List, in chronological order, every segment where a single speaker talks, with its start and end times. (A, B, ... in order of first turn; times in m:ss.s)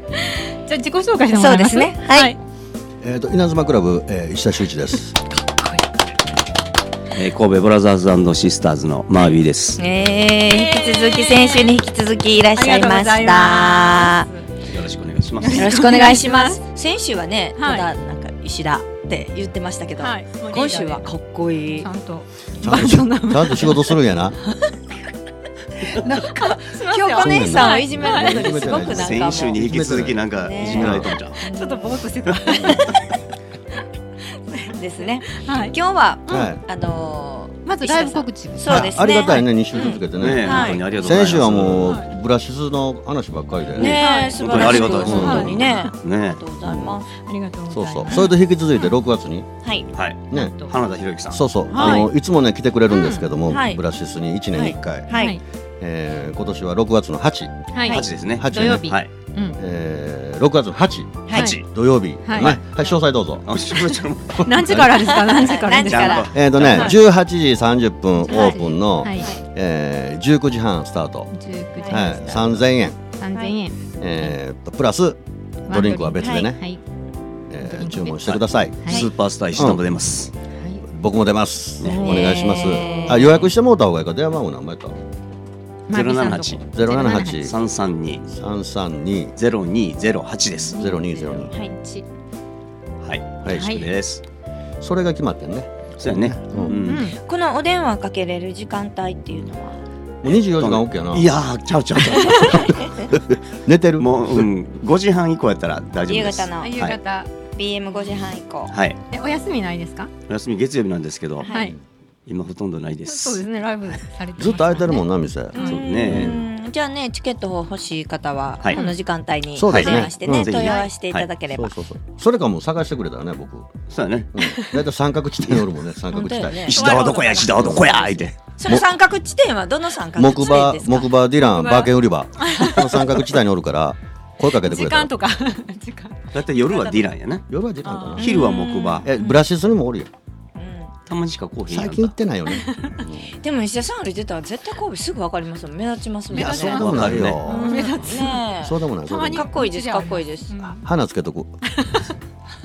0:00.2-0:02.4 A
0:01.3-0:02.3 B
0:03.0-0:05.3 C
0:07.1-0:09.8 D
0:09.8-0:14.3 B
0:10.5-0:11.8 A
0:12.5-0:14.5 A
0:14.6-0:16.1 D
0:15.4-0:16.6 A
0:15.5-0:21.9 B
0:17.6-0:17.9 A
0:20.0-0:21.0 A
0:21.8-0:24.0 A
0:22.6-0:24.4 C
0:25.8-0:32.0 B
0:26.3-0:28.9 A
0:27.2-0:31.1 C
0:28.9-0:31.4 D
0:31.4-0:33.0 A
0:32.3-0:32.9 D
0:32.5-0:33.0 C
0:34.6-0:40.8 B
0:35.3-0:35.8 A
0:36.3-0:36.5 A
0:36.3-0:36.6 C
0:37.6-0:39.9 A
0:38.6-0:45.7 C
0:40.1-0:42.0 D
0:43.8-0:46.4 D
0:43.8-0:47.1 B
0:43.8-0:45.9 A
0:46.6-0:47.0 C
0:47.1-0:48.9 A
0:47.7-0:49.5 C
0:49.6-0:49.9 B
0:49.9-0:51.9 D
0:50.3-0:50.6 C
0:50.3-0:50.7 A
0:51.3-0:55.2 C
0:51.7-0:52.1 A
0:52.9-0:53.3 A
0:53.5-0:53.8 B
0:54.5-0:55.4 B
0:55.1-0:55.4 A
0:55.8-0:57.5 C
0:57.7-0:59.6 A
0:57.9-0:59.1 D
0:58.2-0:59.0 C
0:59.5-1:03.5 C
1:01.2-1:01.5 B
1:01.3-1:01.6 A
1:01.3-1:01.6 D
1:02.2-1:02.6 A
1:03.4-1:04.6 D
1:04.4-1:05.2 C
1:04.4-1:06.3 A
1:05.0-1:07.0 B
1:05.7-1:07.0 D
1:06.3-1:11.3 C
1:08.3-1:09.3 A
1:08.3-1:09.4 B
1:11.3-1:12.6 A
1:11.8-1:12.2 B
1:11.8-1:13.0 C
1:13.2-1:14.3 A
1:13.3-1:13.6 B
1:14.0-1:16.6 C
1:15.7-1:16.8 A
1:16.2-1:16.5 B
1:17.5-1:19.9 C
1:17.6-1:19.1 A
1:18.2-1:20.3 D
1:20.5-1:20.8 A
1:20.8-1:25.0 C
1:21.8-1:22.3 D
1:21.8-1:23.5 B
1:22.1-1:23.4 A
1:25.9-1:26.6 D
1:25.9-1:27.5 A
1:26.7-1:27.6 C
1:27.4-1:28.3 D
1:28.3-1:29.3 C
1:29.4-1:30.8 D
1:30.7-1:32.0 A
1:30.7-1:31.6 C
1:33.0-1:34.2 D
1:33.4-1:33.8 C
1:33.5-1:33.9 A
1:34.8-1:36.8 C
1:36.0-1:37.1 D
1:36.6-1:37.2 A
1:36.8-1:39.8 B
1:40.2-1:41.3 C
1:40.5-1:43.2 D
1:42.9-1:44.5 C
1:44.0-1:47.0 D
1:46.0-1:46.8 B
1:46.6-1:47.3 A
1:47.5-1:48.8 B
1:48.7-1:49.0 D
1:49.1-1:50.1 A
1:50.3-1:51.5 D
1:51.4-1:51.7 B
1:51.5-1:51.8 A
1:52.2-1:53.4 D
1:53.0-1:56.2 A
1:54.4-1:56.4 C
1:55.6-2:01.7 B
1:55.6-1:56.3 D
1:58.7-1:59.0 A
1:59.6-2:00.8 C
1:59.7-2:01.3 D
2:01.5-2:06.8 C
2:03.9-2:04.3 D
2:04.4-2:04.8 A
2:06.1-2:11.2 B
2:06.6-2:08.4 D
2:06.7-2:08.1 A
2:07.6-2:07.9 C
2:10.2-2:15.1 C
2:11.4-2:13.3 A
2:14.5-2:16.2 A
2:16.3-2:17.4 D
2:16.6-2:17.1 B
2:17.5-2:18.3 C
2:17.8-2:18.3 A
2:18.2-2:19.1 B
2:18.2-2:19.1 D
2:19.0-2:20.1 C
2:20.6-2:20.9 B
2:21.0-2:22.2 D
2:21.7-2:23.4 C
2:22.5-2:23.0 A
2:23.3-2:26.9 B
2:26.3-2:29.5 C
2:26.3-2:30.9 A
2:26.5-2:27.4 D
2:27.4-2:30.8 B
2:30.8-2:31.6 C
2:31.6-2:32.1 A